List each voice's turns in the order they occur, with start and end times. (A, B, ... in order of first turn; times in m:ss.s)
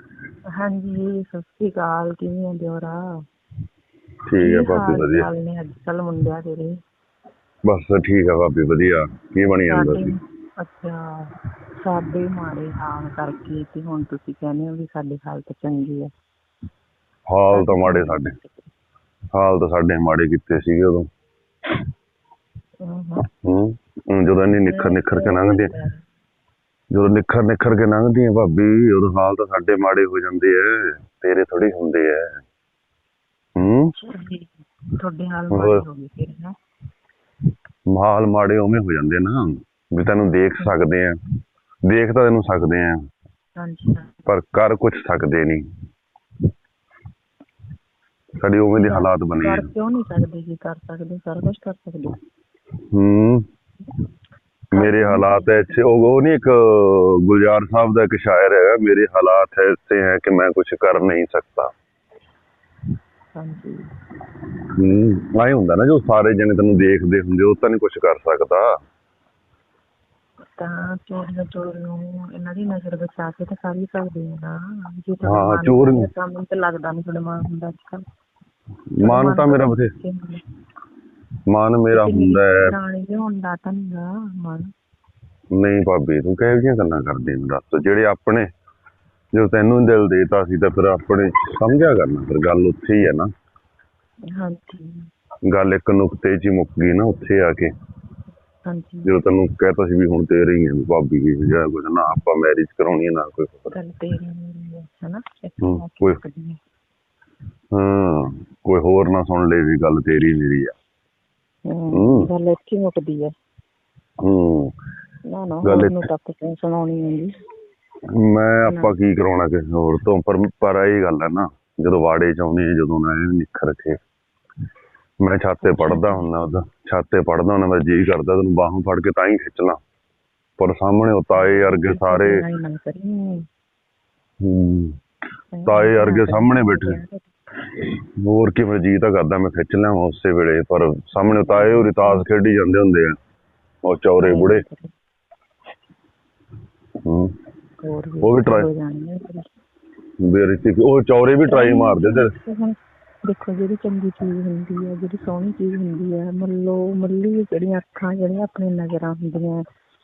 0:00.6-0:03.1 A
0:04.3-0:05.3 B
0:04.4-0:06.8 A
0:07.6-0:10.1 B
0:09.7-0:16.1 A
0:17.3-0:18.4 B
0:17.5-0:18.7 A
0:19.3-0:21.1 B
0:22.8-0:23.3 A
0:23.3-0:25.7 B
0:24.6-0:26.0 A
0:26.9-0:32.4 B
0:33.6-0:33.9 B
0:34.0-0:36.6 A
0:35.5-0:35.8 B
0:37.9-0:41.2 B
0:41.9-0:43.0 B
0:43.6-0:44.1 A
0:44.3-0:45.6 B
0:48.4-0:49.7 B
0:48.8-0:52.2 A
0:52.9-0:53.5 B
0:54.7-0:55.8 A
0:54.7-1:01.7 B
1:03.4-1:03.9 A
1:04.8-1:08.7 B
1:10.6-1:18.0 A
1:15.2-1:16.1 B
1:18.9-1:19.9 B
1:19.0-1:20.4 A
1:21.5-1:22.7 B
1:21.9-1:24.7 A
1:25.5-1:28.5 B
1:29.3-1:33.3 B
1:34.3-1:35.1 A
1:35.5-1:37.7 B
1:38.6-1:39.1 A
1:39.0-1:43.8 B
1:43.7-1:46.6 A
1:45.6-1:46.2 B
1:47.7-1:50.7 B
1:51.7-1:53.3 A
1:51.9-1:52.3 B
1:54.2-1:54.7 B
1:55.3-1:57.3 A
1:55.6-1:56.0 B
1:58.1-2:04.0 B
1:58.7-1:59.0 A
2:05.2-2:09.8 B
2:05.6-2:06.3 A
2:10.6-2:12.4 B
2:11.3-2:13.5 A
2:14.4-2:15.0 B
2:15.5-2:17.2 A
2:15.7-2:17.0 B
2:17.8-2:23.2 B
2:21.5-2:22.3 A
2:23.8-2:24.6 B
2:24.2-2:24.9 A
2:27.0-2:27.4 B
2:27.8-2:29.5 A
2:28.2-2:28.7 B
2:30.2-2:32.3 B
2:31.4-2:39.6 A